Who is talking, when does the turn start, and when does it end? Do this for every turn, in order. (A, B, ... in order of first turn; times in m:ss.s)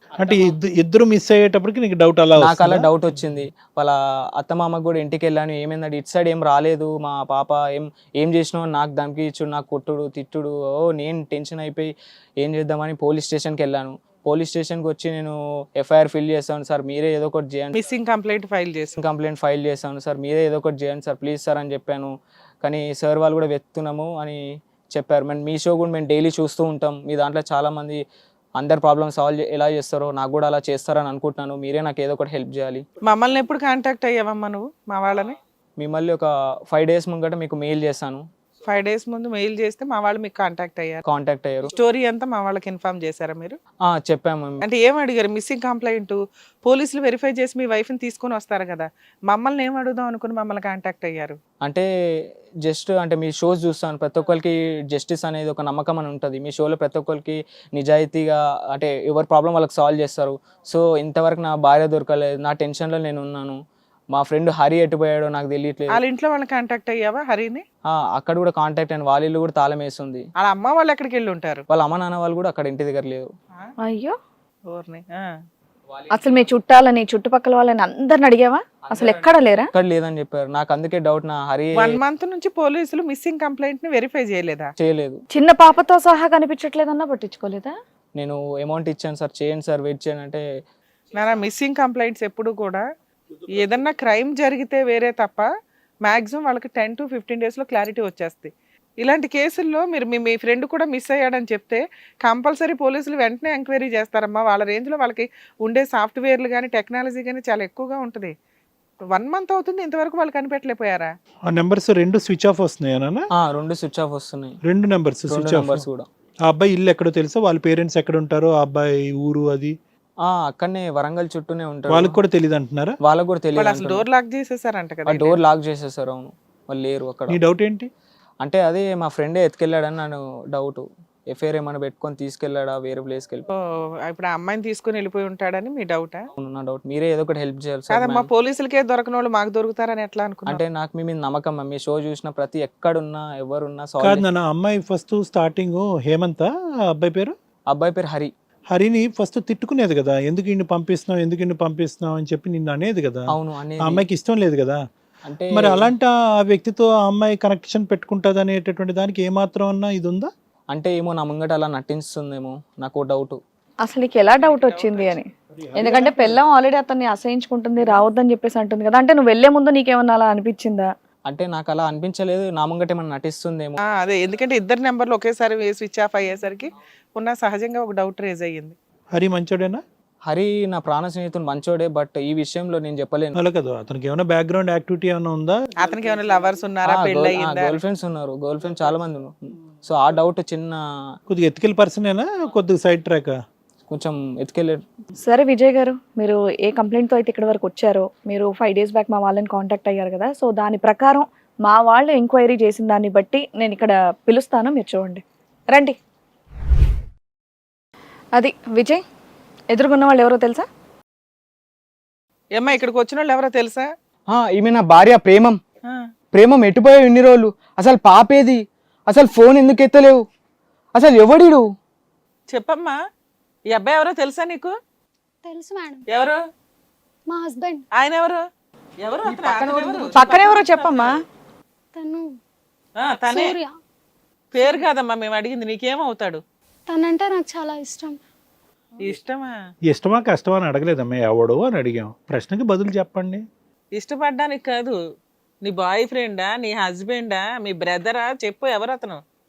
0:00.2-0:02.9 A
0:02.4-0:17.8 B
0:17.8-0:18.9 C
0:19.0-0:22.1 B
0:22.6-0:28.0 B
0:28.6-0:32.8 B
0:33.0-0:35.4 C
0:35.8-0:38.2 B
0:38.6-0:41.0 C
0:41.1-0:41.7 B
0:41.7-0:43.6 C
0:43.8-0:44.6 B
0:44.6-0:51.4 C
0:51.6-0:51.9 B
0:52.6-1:03.6 B
1:04.1-1:06.0 B
1:05.9-1:07.6 C
1:07.9-1:10.2 B
1:10.4-1:11.6 C
1:11.7-1:13.3 B
1:13.8-1:14.1 D
1:14.7-1:15.3 C
1:16.1-1:19.7 D
1:18.8-1:22.0 B
1:21.8-1:24.7 C
1:24.8-1:25.2 B
1:25.3-1:27.7 D
1:28.2-1:30.4 B
1:31.2-1:32.8 C
1:33.5-1:35.5 C
1:36.0-1:48.3 C
1:49.1-1:51.1 C
1:51.5-1:53.2 A
1:53.4-1:54.6 B
1:54.6-1:55.8 A
1:55.3-1:56.1 B
1:56.5-1:59.7 A
2:00.2-2:02.2 B
2:01.9-2:02.9 A
2:03.0-2:04.0 B
2:03.5-2:05.4 C
2:05.0-2:07.4 B
2:07.3-2:07.9 A
2:08.4-2:13.5 B
2:13.6-2:16.3 C
2:16.4-2:18.3 B
2:17.9-2:20.6 C
2:20.5-2:24.2 B
2:24.0-2:27.3 A
2:27.7-2:28.3 B
2:28.7-2:33.2 A
2:33.3-2:34.0 B
2:33.8-2:34.8 A
2:35.2-2:35.9 B
2:35.5-2:40.3 A
2:40.7-2:43.4 B
2:43.8-2:50.9 D
2:44.3-2:45.2 C
2:45.6-2:46.4 A
2:51.3-2:53.8 B
2:53.8-2:58.8 C
2:59.1-2:59.8 A
3:00.2-3:03.4 B
3:03.3-3:05.6 A
3:05.8-3:07.7 C
3:06.8-3:11.1 B
3:11.3-3:13.4 A
3:13.9-3:14.8 B
3:15.2-3:26.0 D
3:28.4-3:29.0 D
3:29.7-3:30.7 D
3:32.5-3:33.9 C
3:34.3-3:35.6 B
3:36.3-3:40.2 B
3:40.9-3:41.7 B
3:42.5-3:43.0 C
3:43.7-3:44.7 C
3:45.4-3:46.0 E
3:46.1-3:46.4 C
3:47.3-3:47.8 E
3:47.9-3:48.4 C
3:49.0-3:51.1 C
3:49.3-3:51.2 D
3:51.9-3:52.4 E
3:53.0-3:53.6 C
3:53.3-3:53.7 E
3:54.5-3:56.4 C
3:54.6-3:54.8 E
3:56.9-3:58.2 E
3:59.0-3:59.6 C
3:59.9-4:03.4 A
4:03.9-4:05.0 C
4:05.6-4:09.2 C